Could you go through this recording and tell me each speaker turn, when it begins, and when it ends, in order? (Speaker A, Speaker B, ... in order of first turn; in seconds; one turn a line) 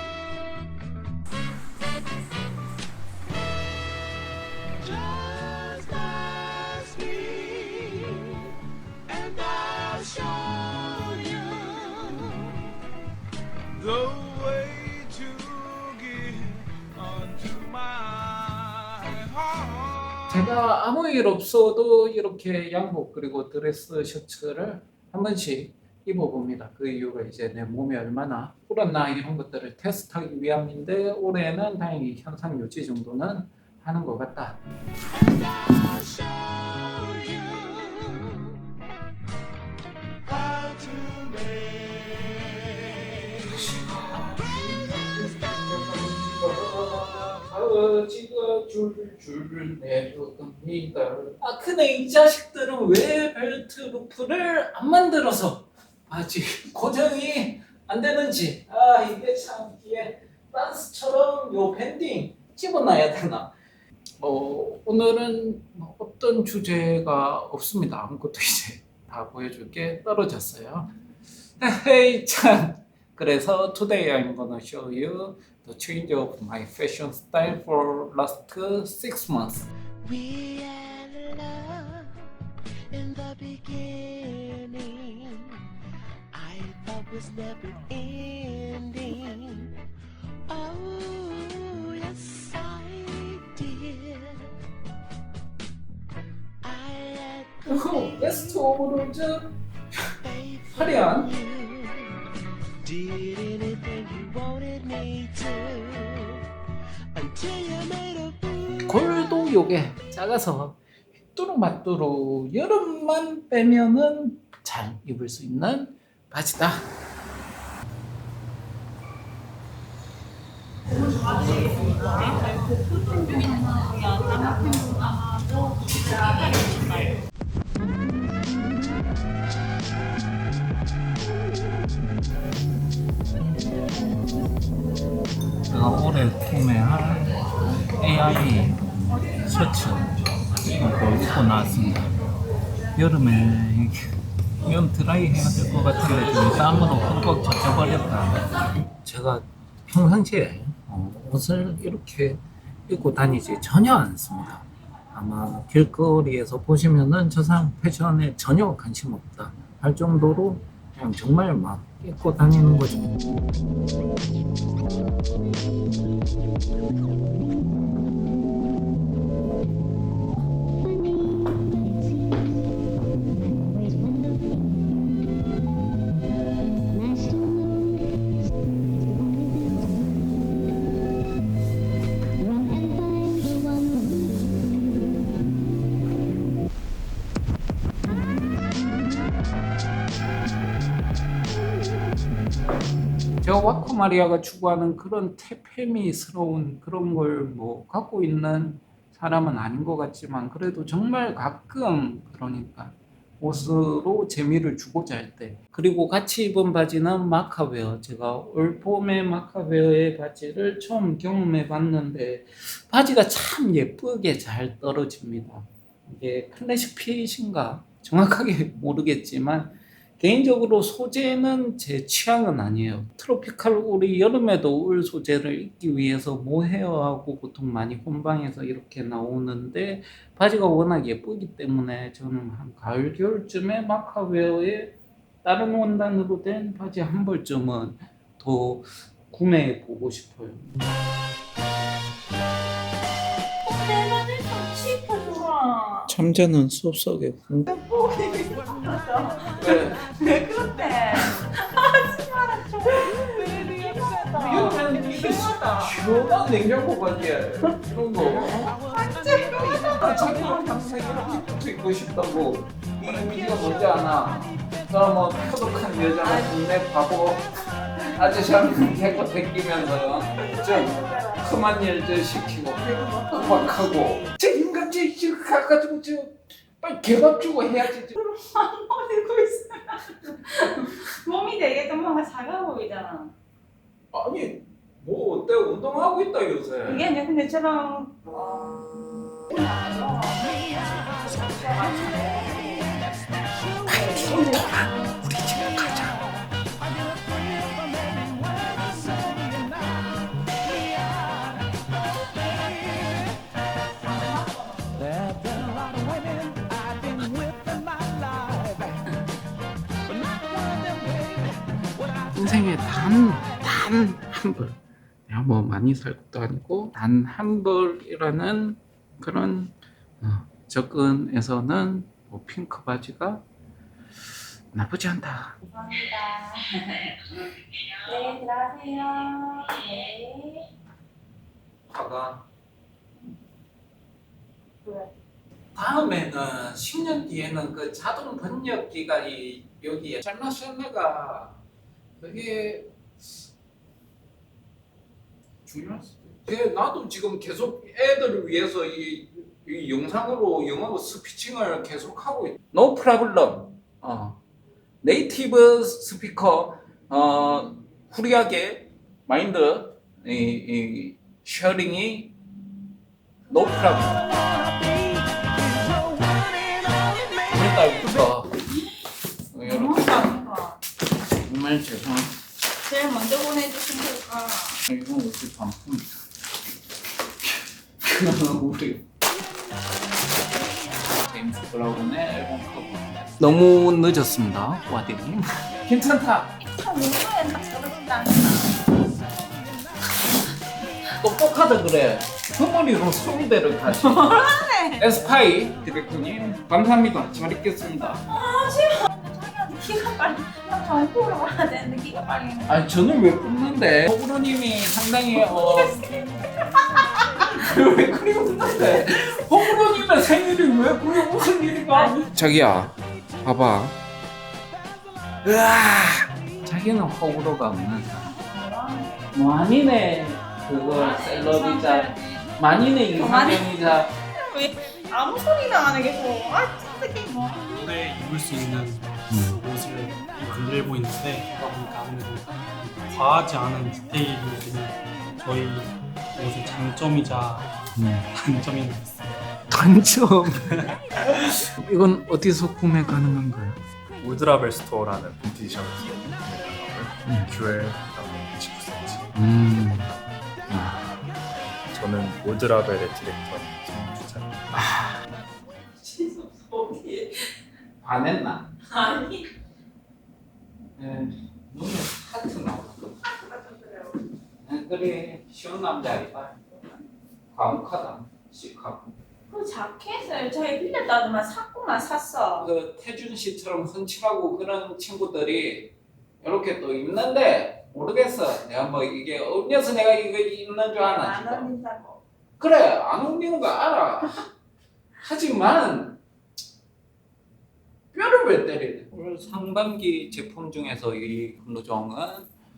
Speaker A: 5.4-8.3
Speaker A: 9.4-10.3
Speaker A: 11.7-12.3
Speaker B: 20.3-34.6
Speaker B: 43.4-63.5
Speaker B: 64.2-70.9
Speaker B: 71.6-79.7
Speaker A: 80.0-82.1
Speaker A: 82.9-85.5
Speaker A: 86.3-89.7
Speaker A: 90.5-94.4
Speaker A: 96.7-97.5
Speaker B: 97.7-99.5
Speaker B: 100.7-101.3
Speaker A: 101.3-102.0
Speaker A: 102.8-106.4
Speaker A: 107.2-108.7
Speaker B: 108.8-110.8
Speaker B: 111.3-116.9
Speaker C: 121.0-127.1
Speaker B: 135.7-137.4
Speaker B: 138.0-142.1
Speaker B: 142.9-148.5
Speaker B: 149.0-163.2
Speaker B: 193.4-240.7
Speaker C: 243.7-246.1
Speaker B: 246.1-247.7
Speaker C: 247.7-256.0
Speaker B: 249.6-250.0
Speaker B: 254.3-258.8
Speaker C: 258.8-260.6
Speaker B: 259.8-267.5
Speaker C: 266.2-266.5
Speaker B: 268.1-278.2
Speaker C: 270.3-271.6
Speaker C: 278.1-283.3
Speaker B: 284.1-287.1
Speaker C: 286.9-288.8
Speaker C: 289.5-290.6
Speaker C: 291.1-292.9
Speaker C: 293.9-295.1
Speaker B: 293.9-296.2
Speaker C: 304.0-305.2
Speaker B: 312.3-323.5
Speaker B: 324.7-325.6
Speaker C: 325.6-327.5
Speaker C: 328.0-330.7
Speaker B: 331.9-332.5
Speaker C: 334.9-335.1
Speaker B: 335.8-341.6
Speaker B: 342.2-342.9
Speaker B: 345.7-354.4
Speaker B: 355.0-362.4
Speaker B: 363.5-364.2
Speaker B: 367.5-368.5
Speaker B: 369.5-370.3
Speaker C: 369.6-370.8
Speaker B: 371.3-372.4
Speaker C: 372.9-374.8
Speaker B: 374.9-376.1
Speaker B: 378.0-379.1
Speaker B: 381.1-386.5
Speaker C: 386.6-388.8
Speaker B: 391.2-398.2
Speaker C: 393.9-395.0
Speaker C: 398.3-402.8
Speaker B: 402.7-406.0
Speaker C: 405.6-407.5
Speaker B: 407.4-414.0
Speaker C: 411.9-412.3
Speaker B: 415.4-418.4
Speaker C: 418.5-419.3
Speaker B: 419.3-424.1
Speaker C: 420.8-422.2
Speaker C: 423.2-427.6
Speaker D: 427.6-437.7
Speaker B: 429.3-429.6
Speaker B: 437.9-438.3
Speaker D: 438.3-439.3
Speaker B: 439.7-443.8
Speaker E: 444.2-449.2
Speaker B: 447.3-447.5
Speaker B: 449.4-450.1
Speaker B: 450.7-451.1
Speaker E: 451.9-454.6
Speaker B: 454.7-455.1
Speaker C: 456.0-457.5
Speaker B: 458.0-458.7
Speaker C: 458.9-459.5
Speaker B: 461.0-463.1
Speaker C: 463.3-464.2
Speaker B: 464.6-466.9
Speaker B: 467.5-469.1
Speaker C: 469.5-472.7
Speaker B: 472.6-481.7
Speaker C: 481.0-482.2
Speaker B: 482.6-484.4
Speaker B: 485.2-486.2
Speaker B: 488.1-492.5